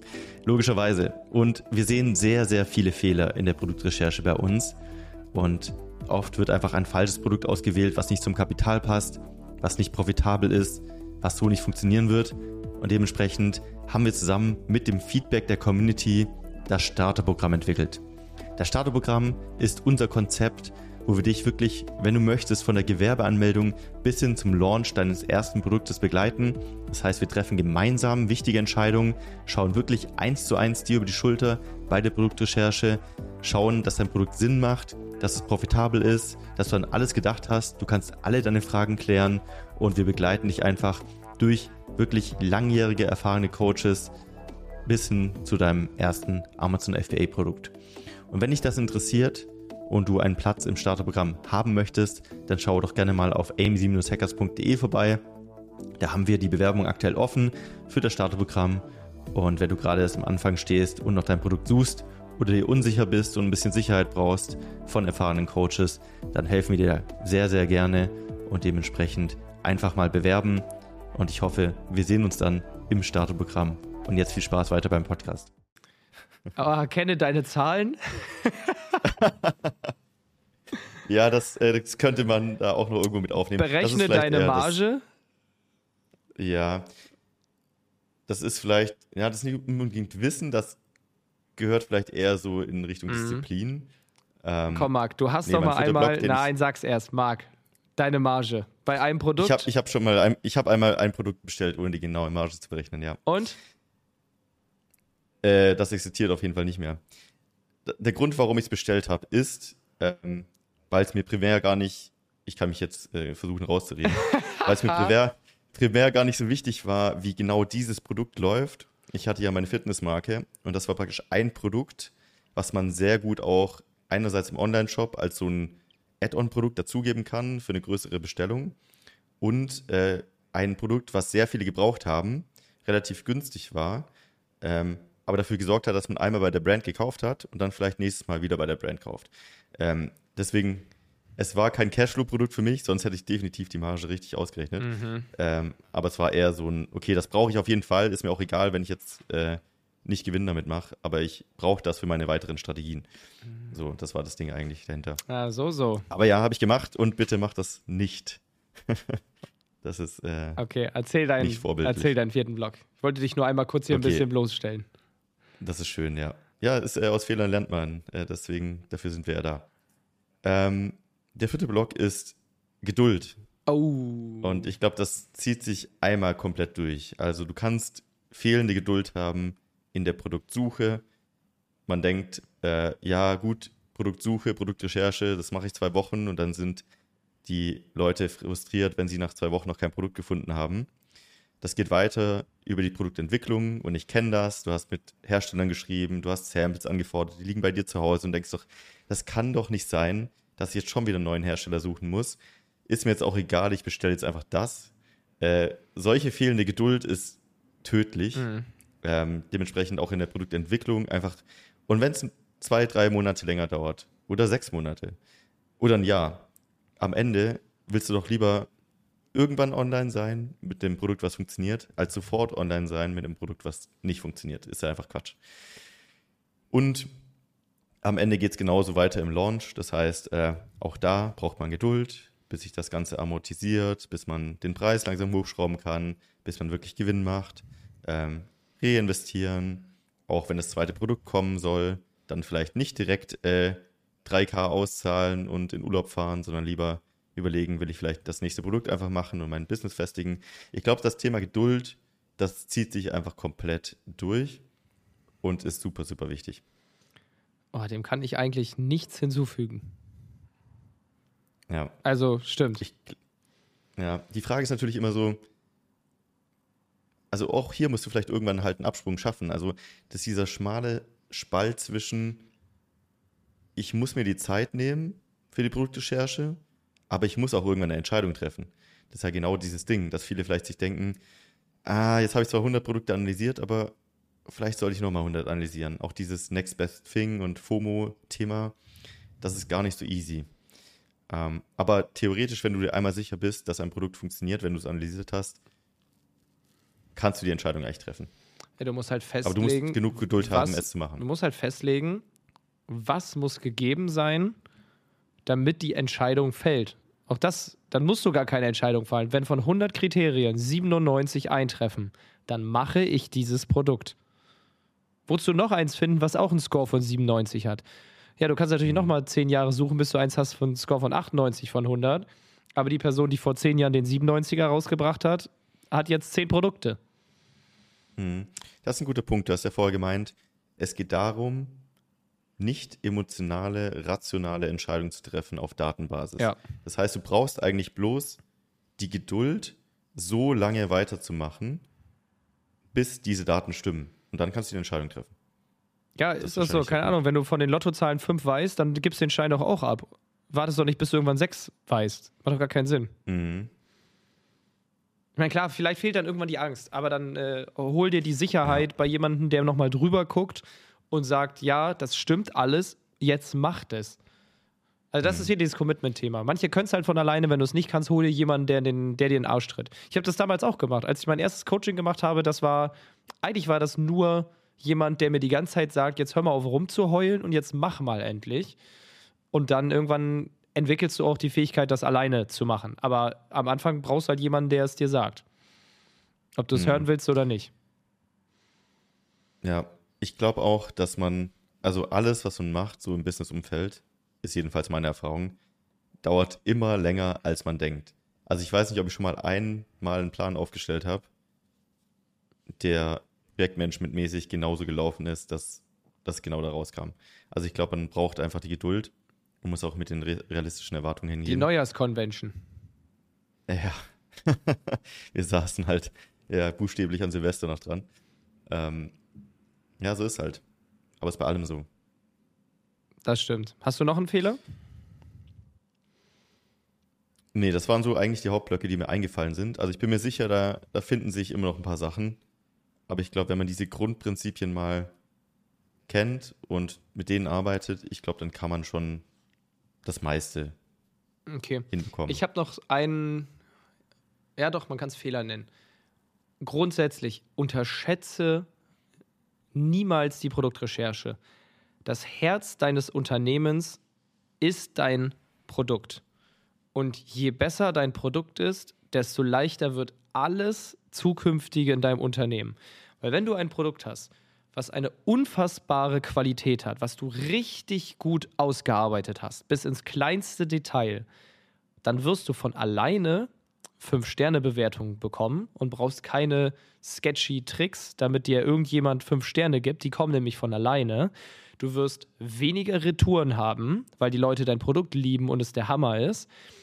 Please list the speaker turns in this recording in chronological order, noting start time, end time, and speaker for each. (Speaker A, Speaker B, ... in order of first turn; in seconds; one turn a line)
Speaker A: 0.5-4.8
Speaker A: 5.3-18.0
Speaker A: 18.6-44.1
Speaker A: 44.9-47.7
Speaker A: 48.3-55.2
Speaker A: 56.0-75.5
Speaker B: 76.6-79.0
Speaker A: 79.0-79.7
Speaker A: 81.0-84.8
Speaker B: 83.6-85.0
Speaker A: 86.4-86.9
Speaker A: 88.3-90.8
Speaker A: 91.6-93.9
Speaker B: 93.1-93.5
Speaker A: 94.4-94.9
Speaker B: 94.7-99.7
Speaker A: 95.5-96.5
Speaker A: 99.4-103.2
Speaker B: 103.3-103.6
Speaker A: 105.4-107.0
Speaker A: 107.9-128.8
Speaker A: 129.4-134.1
Speaker A: 134.6-153.1
Speaker B: 144.8-145.3
Speaker A: 153.7-155.2
Speaker B: 155.3-156.1
Speaker A: 156.1-159.2
Speaker A: 159.8-160.6
Speaker B: 160.6-164.9
Speaker A: 161.4-162.1
Speaker A: 163.9-164.2
Speaker A: 165.6-169.7
Speaker A: 170.4-173.4
Speaker B: 173.7-174.7
Speaker A: 174.4-181.0
Speaker A: 181.9-186.8
Speaker A: 187.4-190.9
Speaker A: 191.6-208.5
Speaker B: 208.4-208.7
Speaker A: 209.0-215.2
Speaker A: 215.8-216.5
Speaker A: 217.0-218.7
Speaker A: 219.3-225.4
Speaker A: 226.7-227.1
Speaker A: 228.0-254.6
Speaker A: 255.4-256.6
Speaker B: 257.7-259.9
Speaker A: 261.7-261.9
Speaker B: 262.0-262.8
Speaker A: 262.8-263.2
Speaker A: 264.0-265.4
Speaker A: 267.3-272.5
Speaker A: 273.8-276.6
Speaker A: 277.1-281.2
Speaker A: 281.9-283.9
Speaker A: 284.5-288.8
Speaker A: 289.4-290.5
Speaker A: 291.3-295.6
Speaker A: 297.2-298.3
Speaker B: 298.8-302.2
Speaker A: 299.4-301.2
Speaker B: 302.9-304.6
Speaker B: 305.5-314.2
Speaker B: 315.3-317.8
Speaker B: 318.4-327.0
Speaker A: 328.2-331.8
Speaker A: 332.6-338.4
Speaker A: 339.0-341.9
Speaker A: 342.9-345.3
Speaker B: 346.2-353.1
Speaker A: 346.4-347.2
Speaker A: 353.3-353.7
Speaker B: 355.4-364.2
Speaker B: 365.1-378.8
Speaker A: 365.2-365.5
Speaker B: 379.5-385.4
Speaker B: 386.6-387.7
Speaker A: 386.7-387.1
Speaker A: 389.6-395.6
Speaker A: 396.2-401.3
Speaker A: 402.8-411.7
Speaker B: 411.5-412.6
Speaker A: 413.7-418.1
Speaker A: 418.7-419.2
Speaker A: 420.0-420.6
Speaker A: 421.2-421.9
Speaker B: 423.2-424.6
Speaker A: 427.5-432.4
Speaker A: 433.1-435.1
Speaker A: 436.1-439.2
Speaker A: 440.1-440.8
Speaker B: 441.5-443.5
Speaker A: 441.9-442.4
Speaker B: 444.6-445.7
Speaker B: 446.6-448.7
Speaker B: 449.7-451.4
Speaker B: 452.1-454.0
Speaker B: 454.6-456.2
Speaker B: 456.9-471.3
Speaker B: 472.0-486.5